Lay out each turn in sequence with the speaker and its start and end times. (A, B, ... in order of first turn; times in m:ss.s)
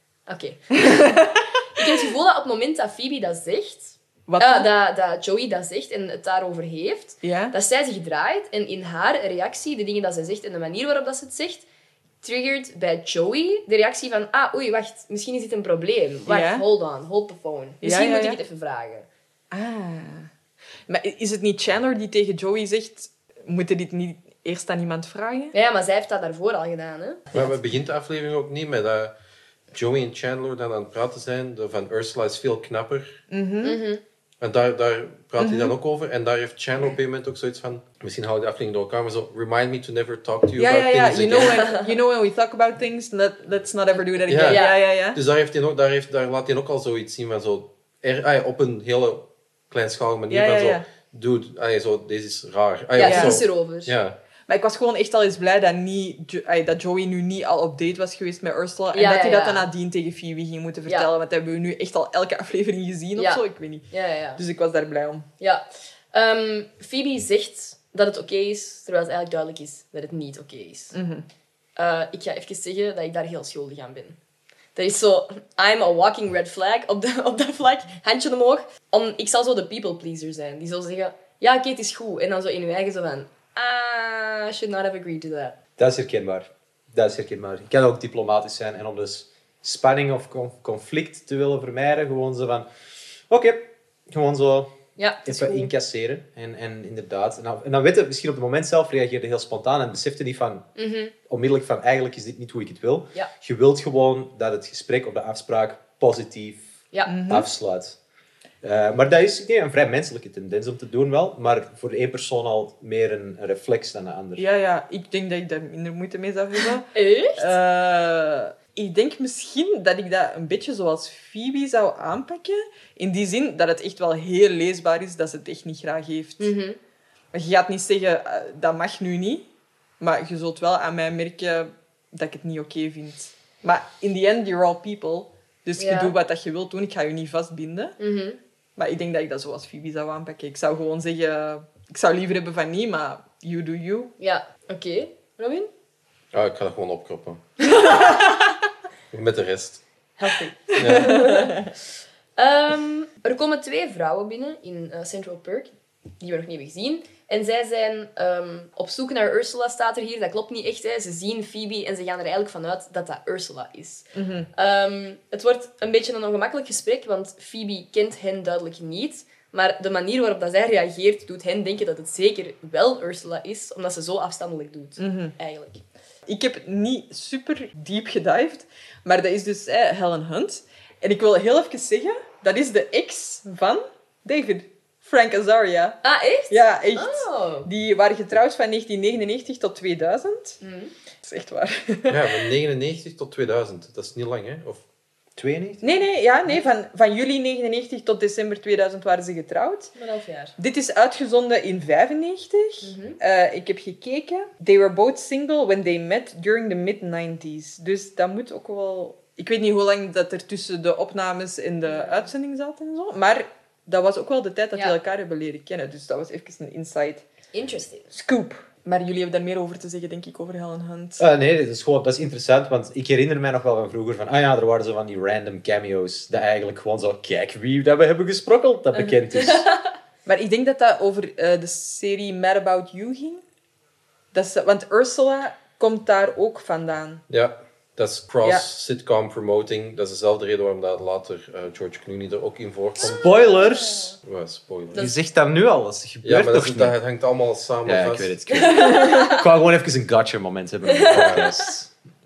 0:00.3-0:01.2 A
0:00.8-0:01.4 B
0:01.8-0:11.6 A
0:04.3-0:04.7 B
0:07.2-0:07.5 B
0:12.2-0:19.1 A
0:16.3-0:16.6 B
0:17.8-0:18.4 B
0:19.5-0:20.3 B
0:20.9-0:25.5 B
0:25.5-0:27.4 A
0:27.3-0:29.1 C
0:29.7-0:33.1 C
0:33.3-0:33.8 B
0:33.6-0:34.0 A
0:34.4-0:41.7 C
0:35.4-0:35.7 B
0:40.6-0:45.2 B
0:41.4-0:41.9 A
0:43.9-0:44.8 A
0:44.3-0:54.2 C
0:50.3-0:50.8 B
0:53.0-0:54.0 A
0:53.0-0:53.4 B
0:54.5-1:03.8 B
0:58.9-0:59.7 A
1:03.2-1:04.4 A
1:04.4-1:05.2 B
1:05.4-1:10.9 A
1:10.9-1:11.2 B
1:11.8-1:14.2 A
1:14.7-1:25.6 A
1:25.8-1:32.7 D
1:33.3-1:34.7 D
1:35.0-1:35.7 A
1:35.2-1:40.7 D
1:40.8-1:41.1 A
1:41.3-1:46.6 D
1:47.0-1:47.5 B
1:47.3-1:48.0 D
1:48.6-1:54.4 D
1:54.4-2:06.5 B
1:56.9-1:57.5 A
2:06.4-2:06.8 A
2:07.3-2:09.4 B
2:10.0-2:18.0 B
2:15.8-2:16.1 A
2:18.0-2:18.4 A
2:18.8-2:24.1 B
2:24.2-2:25.7 A
2:26.3-2:27.4 C
2:29.1-2:29.8 C
2:30.2-2:31.7 A
2:30.8-2:31.3 C
2:30.8-2:31.7 B
2:32.4-2:55.8 A
2:44.1-2:44.5 B
2:55.0-2:55.3 B
2:56.2-3:10.6 B
3:06.0-3:07.7 A
3:10.6-3:10.9 A
3:11.2-3:12.2 B
3:12.1-3:14.8 C
3:15.4-3:15.8 D
3:15.8-3:19.9 B
3:19.9-3:20.5 A
3:20.6-3:37.2 B
3:22.8-3:23.2 A
3:31.8-3:32.3 A
3:37.5-3:38.1 A
3:38.1-3:41.2 B
3:41.2-3:49.7 D
3:49.4-3:49.8 A
3:50.2-3:53.4 B
3:54.3-3:57.2 B
3:57.3-4:03.3 C
4:03.0-4:04.2 D
4:03.0-4:04.2 A
4:04.2-4:05.0 C
4:04.9-4:07.0 D
4:06.2-4:08.4 C
4:07.8-4:11.9 D
4:08.5-4:09.4 A
4:10.9-4:11.5 A